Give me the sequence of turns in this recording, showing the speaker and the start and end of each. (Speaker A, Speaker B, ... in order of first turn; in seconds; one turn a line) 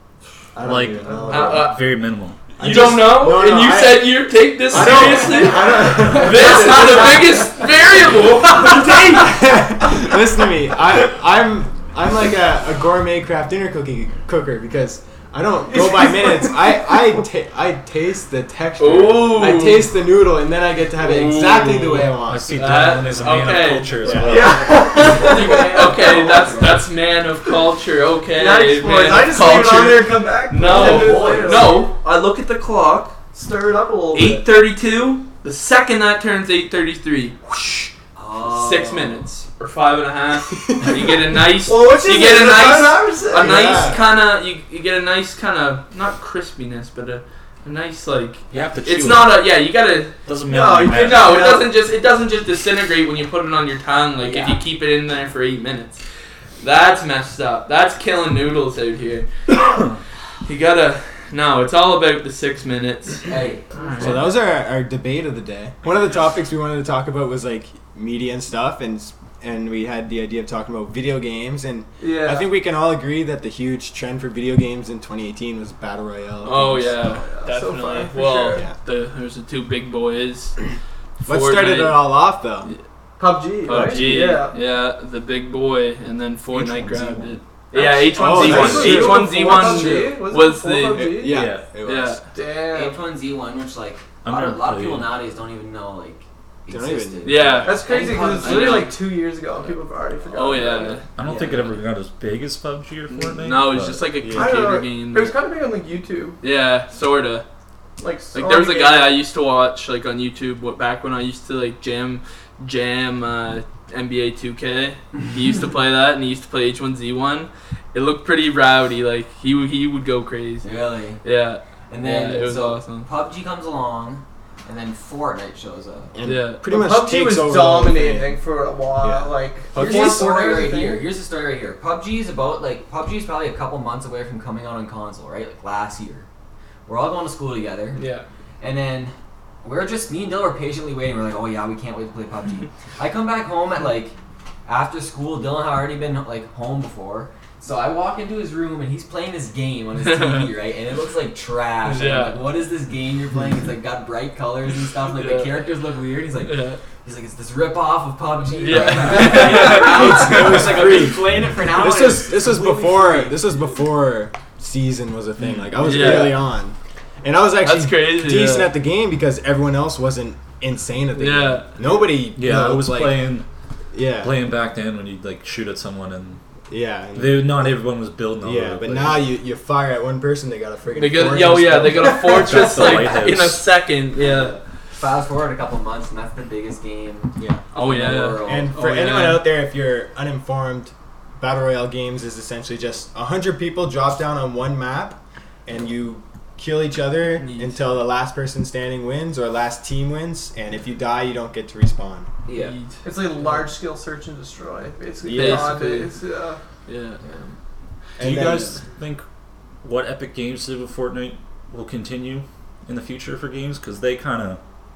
Speaker A: 0.6-1.7
Speaker B: 0.6-2.5
Speaker C: 1.1-1.4
Speaker D: 1.3-1.8
Speaker A: 2.6-7.2
Speaker D: 2.6-9.0
Speaker C: 5.2-7.4
Speaker A: 8.6-22.7
Speaker C: 15.7-17.2
Speaker D: 18.8-19.9
Speaker D: 21.0-24.0
Speaker B: 22.3-24.8
Speaker A: 24.0-24.4
Speaker C: 24.2-25.8
Speaker E: 24.3-26.9
Speaker D: 24.8-33.2
Speaker C: 28.3-31.9
Speaker E: 30.6-31.8
Speaker C: 33.3-34.5
Speaker D: 34.1-37.9
Speaker E: 38.1-39.3
Speaker D: 38.4-50.2
Speaker C: 41.6-43.9
Speaker A: 43.3-44.0
Speaker E: 48.5-48.8
Speaker B: 48.5-49.4
Speaker B: 50.3-51.5
Speaker C: 50.5-51.7
Speaker D: 50.9-56.0
Speaker E: 54.2-54.6
Speaker D: 56.6-59.8
Speaker D: 60.4-64.2
Speaker E: 63.3-64.1
Speaker A: 64.0-77.2
Speaker C: 72.0-72.5
Speaker D: 76.4-80.6
Speaker C: 77.0-78.7
Speaker D: 81.2-82.8
Speaker A: 81.3-82.7
Speaker C: 83.2-84.6
Speaker D: 83.6-91.1
Speaker A: 83.7-84.2
Speaker B: 86.5-87.4
Speaker C: 87.7-91.4
Speaker A: 88.2-90.2
Speaker A: 90.9-92.2
Speaker B: 91.2-91.7
Speaker D: 91.8-92.2
Speaker C: 92.3-93.0
Speaker E: 92.7-99.0
Speaker B: 94.2-95.2
Speaker A: 96.7-97.9
Speaker D: 97.2-97.8
Speaker C: 97.7-101.0
Speaker D: 98.4-101.0
Speaker B: 101.2-104.2
Speaker E: 101.2-101.8
Speaker D: 103.1-105.3
Speaker A: 104.2-104.6
Speaker C: 104.3-106.4
Speaker D: 106.4-107.5
Speaker C: 108.0-109.3
Speaker D: 108.3-120.7
Speaker E: 120.6-121.2
Speaker D: 121.2-123.1
Speaker E: 121.9-126.2
Speaker A: 126.1-128.4
Speaker D: 126.2-126.7
Speaker C: 126.7-131.1
Speaker A: 129.0-130.4
Speaker E: 129.7-136.3
Speaker D: 129.8-130.1
Speaker E: 136.9-144.1
Speaker D: 137.9-138.3
Speaker E: 144.7-163.5
Speaker D: 150.0-150.5
Speaker D: 151.8-152.5
Speaker D: 155.1-155.7
Speaker D: 156.4-156.8
Speaker D: 158.6-160.7
Speaker A: 158.8-173.3
Speaker C: 159.1-159.9
Speaker B: 165.4-166.2
Speaker D: 165.8-166.4
Speaker D: 167.6-168.7
Speaker D: 171.2-171.7
Speaker E: 171.8-172.1
Speaker B: 172.3-173.5
Speaker A: 173.9-174.4
Speaker B: 174.2-176.4
Speaker A: 176.7-177.8
Speaker B: 177.1-179.3
Speaker A: 178.4-182.9
Speaker D: 180.9-184.6
Speaker B: 182.2-183.7
Speaker E: 184.2-188.7
Speaker A: 187.4-187.6
Speaker D: 187.7-189.5
Speaker A: 188.4-202.3
Speaker D: 197.4-197.9
Speaker E: 202.5-202.8
Speaker D: 202.5-203.7
Speaker C: 203.0-206.6
Speaker A: 205.2-205.8
Speaker D: 205.3-206.1
Speaker D: 206.9-207.2
Speaker E: 207.2-207.6
Speaker A: 208.2-208.8
Speaker B: 208.2-209.2
Speaker B: 209.8-214.6